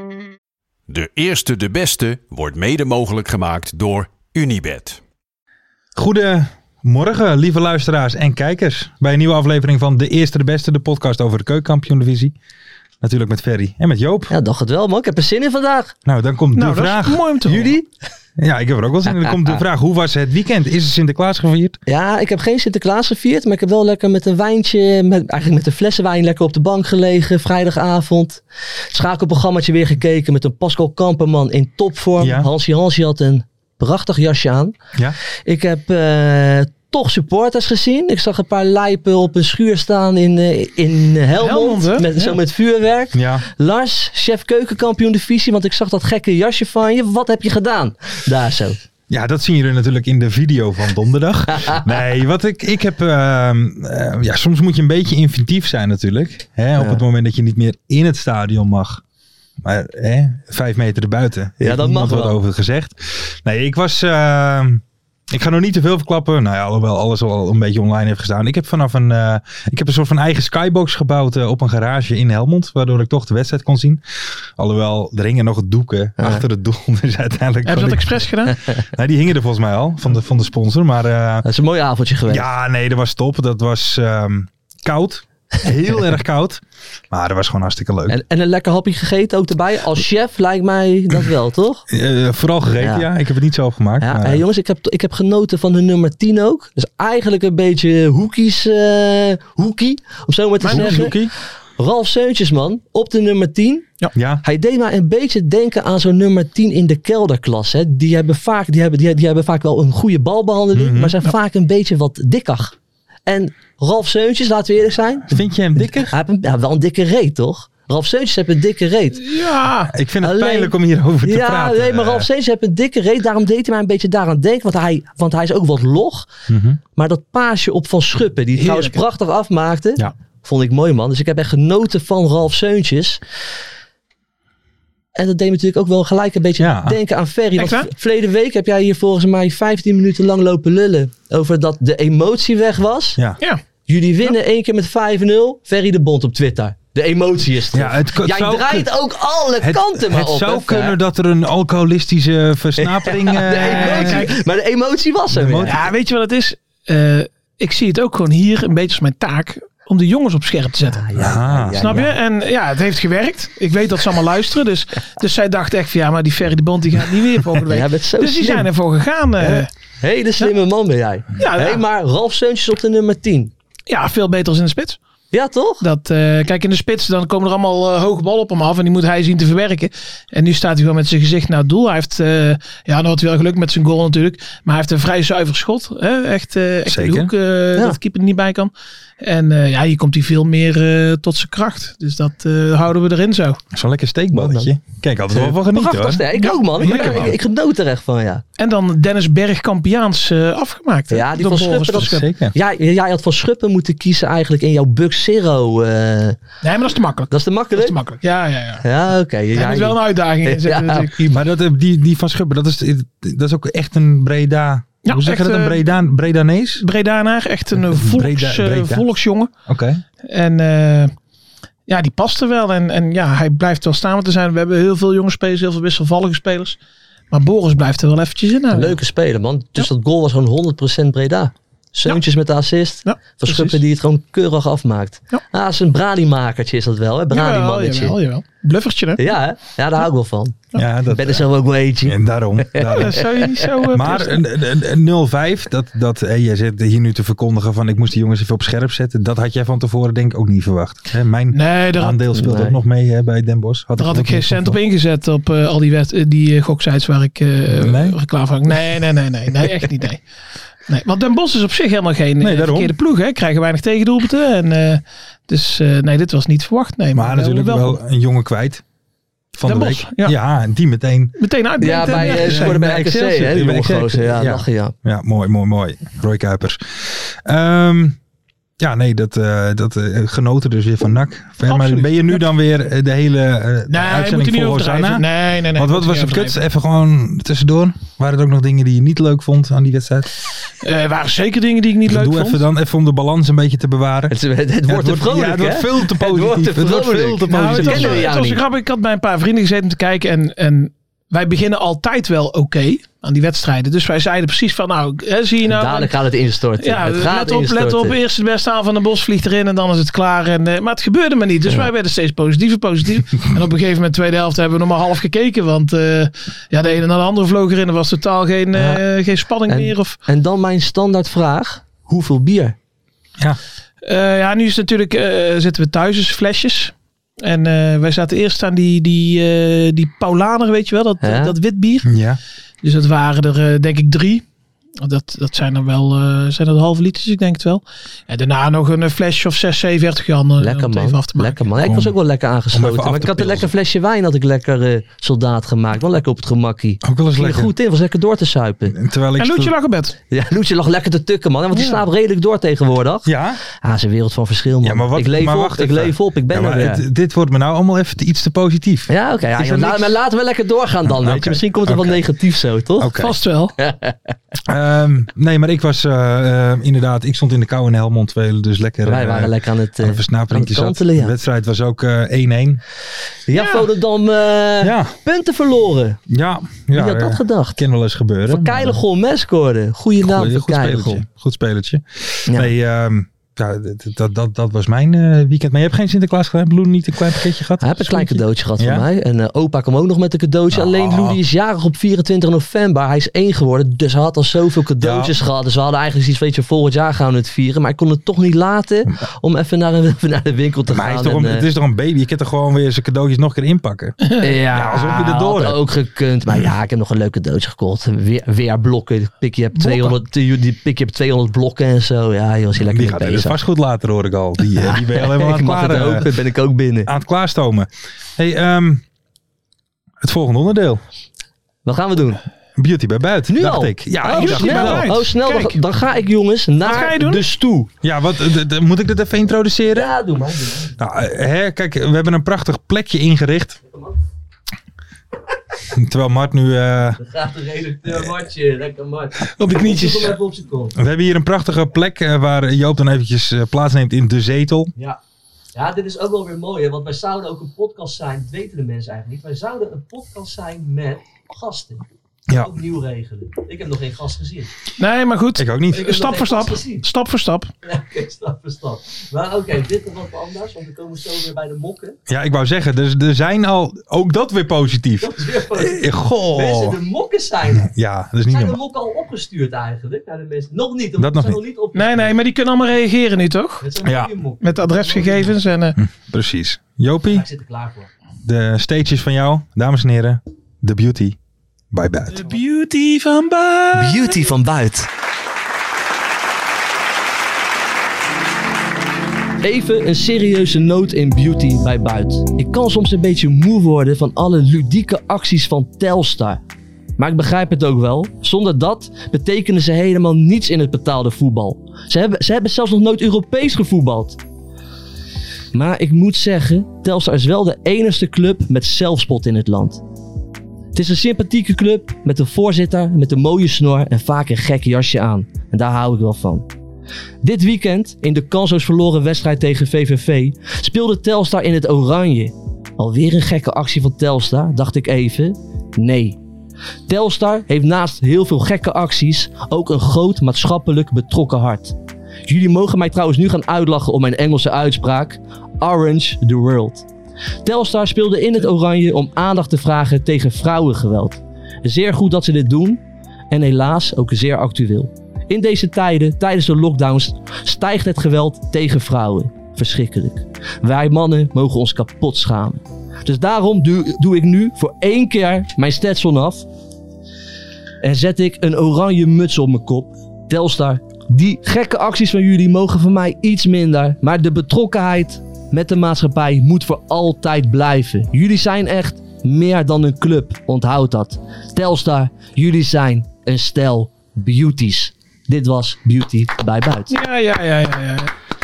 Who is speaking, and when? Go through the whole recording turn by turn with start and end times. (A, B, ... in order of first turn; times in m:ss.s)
0:00.9-0:05.0 A
0:06.0-0:12.3 B
0:13.0-0:14.3 B
0:14.3-0:15.9 C
0:16.0-0:17.7 B
0:16.5-0:17.8 D
0:17.5-0:17.8 C
0:18.4-0:21.8 B
0:19.1-0:19.6 C
0:21.9-0:34.8 C
0:32.2-0:32.5 B
0:35.4-0:48.8 C
0:41.4-0:42.4 D
0:43.1-0:43.4 B
0:49.1-0:59.0 B
0:59.6-1:14.0 B
1:01.6-1:02.3 C
1:14.6-1:21.4 B
1:16.2-1:16.4 C
1:17.6-1:18.5 D
1:21.4-1:22.5 C
1:22.3-1:28.2 B
1:28.1-1:31.8 C
1:31.9-1:34.4 B
1:32.7-1:33.0 C
1:34.0-1:41.2 C
1:40.6-1:41.1 D
1:40.7-1:41.3 B
1:41.8-1:52.7 C
1:44.1-1:44.4 B
1:50.7-1:51.2 B
1:53.2-1:59.3 C
1:55.3-1:56.1 B
1:59.2-1:59.9 D
1:59.9-2:02.3 B
2:00.2-2:06.3 C
2:06.5-2:06.8 B
2:07.0-2:13.2 C
2:08.6-2:09.0 D
2:15.2-2:23.2 C
2:16.6-2:17.0 B
2:17.6-2:17.9 D
2:23.9-2:31.0 C
2:27.7-2:28.9 B
2:29.6-2:34.3 B
2:32.8-2:35.7 C
2:33.6-2:34.4 D
2:35.3-2:35.8 B
2:35.6-2:41.0 D
2:40.9-2:42.1 C
2:41.2-2:41.8 B
2:41.8-2:49.7 D
2:47.7-2:48.7 C
2:49.4-2:53.5 C
2:51.4-2:51.8 D
2:53.9-2:55.0 D
2:55.3-2:55.8 C
2:55.8-3:13.6 D
3:06.8-3:07.3 B
3:13.7-3:16.2 B
3:14.3-3:14.7 C
3:15.3-3:18.4 C
3:16.4-3:17.4 D
3:16.8-3:17.4 B
3:18.6-3:22.3 D
3:21.1-3:26.4 C
3:21.9-3:22.5 B
3:26.6-3:28.8 D
3:27.3-3:28.0 C
3:28.8-3:31.3 C
3:29.5-3:31.2 D
3:31.3-3:36.8 B
3:35.0-3:35.8 D
3:36.8-3:39.5 D
3:37.9-3:39.0 B
3:39.7-3:40.0 B
3:40.2-3:41.1 D
3:41.9-3:46.8 D
3:47.3-3:49.0 D
3:48.7-3:58.2 C
3:53.0-3:53.8 D
3:57.3-3:59.3 D
3:59.2-4:03.7 C
4:00.8-4:01.4 B
4:02.0-4:14.8 B
4:02.9-4:04.4 D
4:11.5-4:12.2 D
4:12.3-4:12.8 C
4:14.0-4:20.2 D
4:17.7-4:18.2 B
4:20.9-4:28.0 D
4:22.4-4:22.9 B
4:27.1-4:28.8 B
4:29.5-4:31.4 B
4:29.6-4:30.3 D
4:31.4-4:32.8 D
4:31.8-4:34.9 C
4:31.9-4:38.2 B
4:38.8-4:50.3 B
4:41.6-4:42.4 D
4:43.9-4:46.6 D
4:50.8-4:52.6 D
4:52.1-4:54.3 B
4:54.3-4:58.6 C
4:54.8-4:58.3 B
4:57.5-5:06.2 D
5:05.7-5:08.2 C
5:06.8-5:20.2 D
5:18.7-5:19.0 C
5:19.7-5:22.8 C
5:24.0-5:32.1 D
5:31.2-5:31.5 C
5:32.0-5:32.4 B
5:32.8-5:34.4 D
5:35.0-5:41.7 D
5:40.6-5:49.0 C
5:41.8-5:42.1 B
5:42.7-5:43.7 B
5:47.0-5:47.7 B
5:48.9-5:49.7 B
5:49.4-5:50.2 D
5:50.3-5:57.0 C
5:51.7-5:52.0 D
5:53.2-5:53.6 B
5:54.8-6:00.1 B
5:59.1-6:03.1 C
6:01.1-6:02.2 B
6:03.0-6:03.4 B
6:03.2-6:03.7 D
6:03.8-6:04.2 C
6:04.7-6:12.8 B
6:09.0-6:11.3 C
6:13.5-6:16.2 C
6:13.5-6:13.9 D
6:14.8-6:15.1 B
6:16.3-6:19.0 B
6:16.9-6:17.8 C
6:18.5-6:21.2 C
6:20.2-6:29.0 B
6:27.8-6:41.6 C
6:30.7-6:31.4 B
6:35.0-6:35.3 B
6:40.9-6:45.8 B
6:44.4-6:53.6 C
6:49.8-6:50.2 D
6:52.8-6:56.3 B
6:54.8-6:57.1 C
6:57.0-6:59.0 B
7:00.2-7:01.0 B
7:01.8-7:02.4 C
7:02.8-7:05.1 B
7:03.5-7:07.9 C
7:04.3-7:05.8 D
7:06.8-7:07.4 D
7:07.9-7:10.1 B
7:09.9-7:11.0 C
7:11.0-7:13.8 B
7:13.9-7:14.2 C
7:15.9-7:17.2 B
7:17.2-7:21.0 C
7:18.0-7:18.4 B
7:19.5-7:20.4 D
7:21.0-7:24.9 B
7:25.7-7:34.7 C
7:35.0-7:37.7 D
7:35.6-7:36.2 B
7:35.9-7:37.0 C
7:37.8-7:42.2 C
7:42.3-7:47.0 B
7:45.2-7:47.9 C
7:47.7-7:48.8 B
7:48.5-7:52.3 C
7:51.2-7:51.6 B
7:51.9-7:53.8 D
7:53.8-7:55.6 C
7:54.0-7:54.3 B
7:54.6-7:56.0 D
7:56.0-7:57.4 B
7:57.3-7:58.1 C
7:58.4-8:01.4 B
8:01.9-8:02.5 B
8:02.3-8:04.5 D
8:03.9-8:05.1 C
8:09.6-8:16.6 C
8:17.2-8:24.4 C
8:25.7-8:30.0 C
8:30.9-8:36.7 C
8:37.4-8:46.4 C
8:47.1-8:57.0 C
8:57.6-9:16.6 C
9:18.0-9:37.1 C
9:37.1-9:38.3 D